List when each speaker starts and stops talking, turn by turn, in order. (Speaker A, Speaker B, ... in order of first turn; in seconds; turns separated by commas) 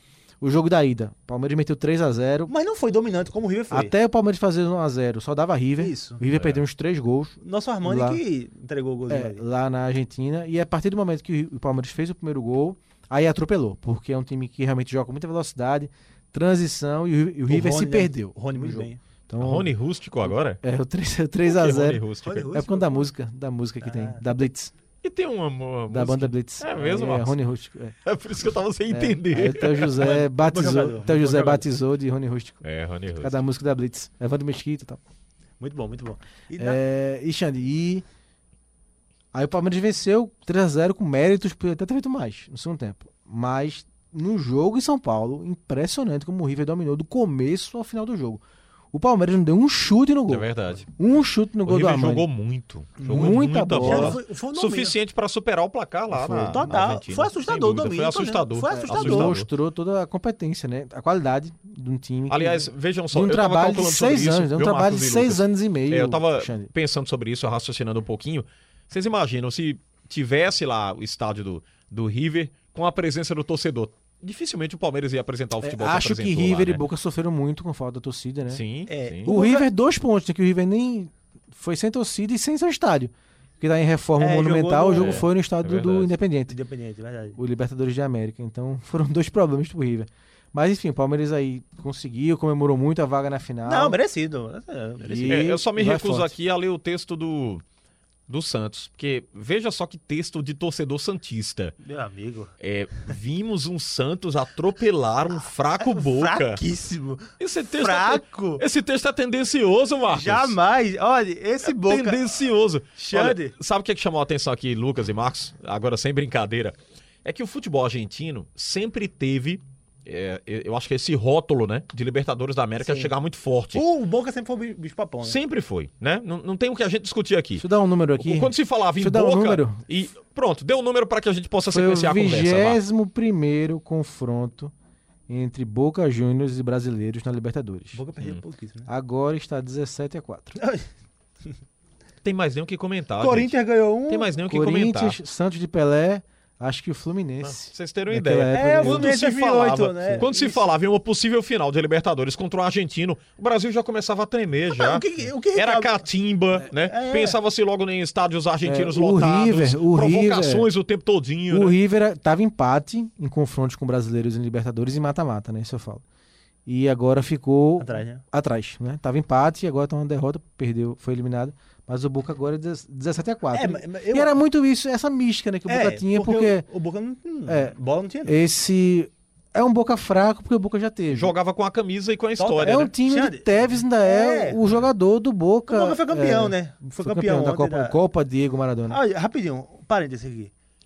Speaker A: 0.4-2.5, Speaker B: 2.5-3.9, Speaker A: 3.7-8.2, Speaker B: 5.8-6.2, Speaker C: 6.3-6.6, Speaker B: 7.4-9.4, Speaker A: 9.1-24.7, Speaker B: 17.5-19.0, Speaker C: 19.4-20.6, Speaker C: 21.4-22.5, Speaker B: 22.2-23.1, Speaker B: 23.8-24.2, Speaker C: 25.0-27.4, Speaker A: 25.9-27.9, Speaker C: 28.0-30.0, Speaker A: 28.9-32.6, Speaker B: 29.9-31.6, Speaker C: 32.6-33.4, Speaker A: 33.2-35.0, Speaker B: 35.6-36.8, Speaker A: 36.6-38.0, Speaker A: 39.3-52.3, Speaker C: 50.3-50.9, Speaker C: 51.6-59.5, Speaker B: 53.0-55.0, Speaker A: 53.0-54.2, Speaker A: 56.1-56.7, Speaker B: 56.3-59.4, Speaker A: 58.7-66.7, Speaker C: 62.3-76.8, Speaker A: 75.6-78.6, Speaker C: 78.5-79.3, Speaker B: 78.9-79.7, Speaker A: 79.2-86.5, Speaker B: 84.2-85.2, Speaker C: 84.9-86.1, Speaker B: 86.5-87.4, Speaker A: 87.3-94.0, Speaker B: 93.7-95.5, Speaker A: 95.0-96.3, Speaker C: 95.3-97.6, Speaker C: 98.3-101.8, Speaker B: 101.8-102.5, Speaker C: 102.6-106.6, Speaker B: 105.4-108.6, Speaker C: 107.4-110.5, Speaker B: 110.1-112.3, Speaker C: 111.6-123.8, Speaker B: 112.9-113.5, Speaker B: 123.7-125.4, Speaker C: 125.2-127.7, Speaker A: 127.6-129.8, Speaker C: 128.2-132.8, Speaker A: 131.7-134.7, Speaker A: 135.3-138.0, Speaker B: 137.9-138.9, Speaker A: 138.8-140.6, Speaker B: 140.6-140.9, Speaker C: 142.2-143.5, Speaker B: 143.2-144.3, Speaker C: 144.1-145.2, Speaker A: 144.4-149.2, Speaker C: 147.4-155.0, Speaker B: 148.5-150.7, Speaker B: 154.7-156.1, Speaker C: 155.5-161.8, Speaker B: 156.6-157.4, Speaker A: 158.6-160.7, Speaker A: 161.5-166.0, Speaker A: 166.7-176.7, Speaker B: 167.8-168.2, Speaker B: 173.5-174.4, Speaker B: 175.7-178.3, Speaker A: 177.5-181.3, Speaker C: 181.1-182.9, Speaker B: 182.4-184.6, Speaker A: 182.6-189.0, Speaker B: 185.7-187.9, Speaker B: 188.9-190.5